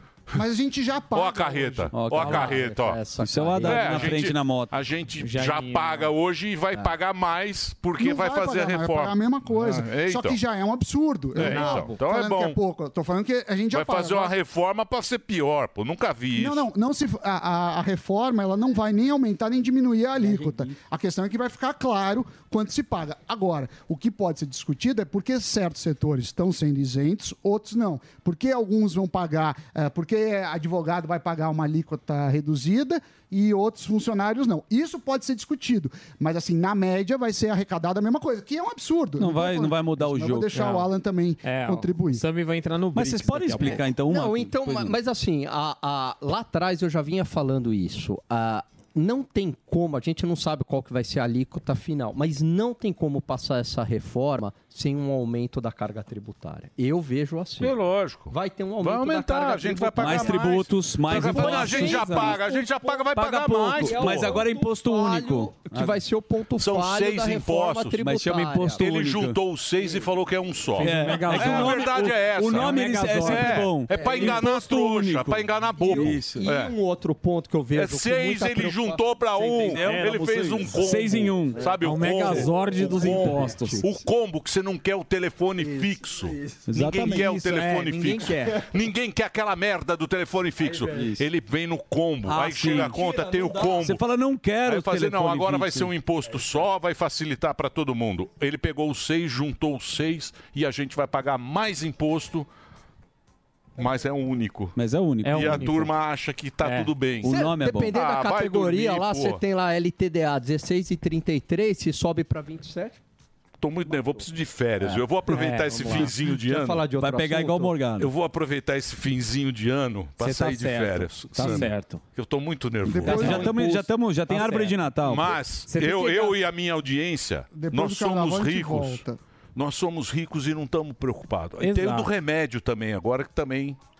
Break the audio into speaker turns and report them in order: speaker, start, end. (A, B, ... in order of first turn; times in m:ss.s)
0:00.3-0:01.9 A
0:01.1-0:03.0 B
0:01.9-0:02.6 C
0:02.1-0:04.2 D
0:03.2-0:04.7 C
0:03.6-0:10.4 B
0:05.2-0:06.1 E
0:08.0-0:14.3 A
0:11.4-0:12.6 B
0:11.4-0:11.8 E
0:13.7-0:16.7 B
0:16.3-0:42.2 A
0:39.2-0:40.7 C
0:40.5-0:40.9 E
0:41.4-0:43.8 E
0:42.9-0:45.0 C
0:44.1-0:57.8 D
0:57.6-1:04.4 B
0:58.3-1:03.0 D
1:00.0-1:02.4 C
1:03.1-1:06.0 C
1:03.8-1:08.8 D
1:06.6-1:08.0 B
1:08.0-1:09.4 C
1:08.8-1:16.7 B
1:10.8-1:13.7 E
1:10.8-1:16.5 C
1:13.9-1:14.4 D
1:15.8-1:19.0 D
1:17.7-1:34.0 B
1:19.6-1:21.6 C
1:19.7-1:23.8 E
1:22.4-1:23.9 D
1:25.6-1:25.8 D
1:26.7-1:27.1 C
1:26.8-1:28.6 E
1:30.9-1:31.2 C
1:32.2-1:33.0 C
1:32.7-1:33.8 D
1:33.8-1:35.9 C
1:34.6-1:42.5 B
1:43.8-1:47.4 B
1:44.8-1:45.7 C
1:45.2-1:45.9 E
1:46.6-1:46.9 E
1:47.2-1:47.9 C
1:47.2-1:53.0 D
1:47.9-1:49.4 B
1:53.6-1:56.8 B
1:55.3-1:56.1 E
1:55.7-1:57.8 D
1:57.0-1:58.1 C
1:58.0-2:03.6 B
2:00.2-2:02.0 E
2:01.4-2:01.7 C
2:02.9-2:03.5 A
2:03.0-2:05.4 C
2:03.1-2:04.8 E
2:05.0-2:09.0 B
2:05.7-2:06.4 E
2:07.5-2:09.2 A
2:09.5-2:13.8 B
2:11.6-2:12.1 E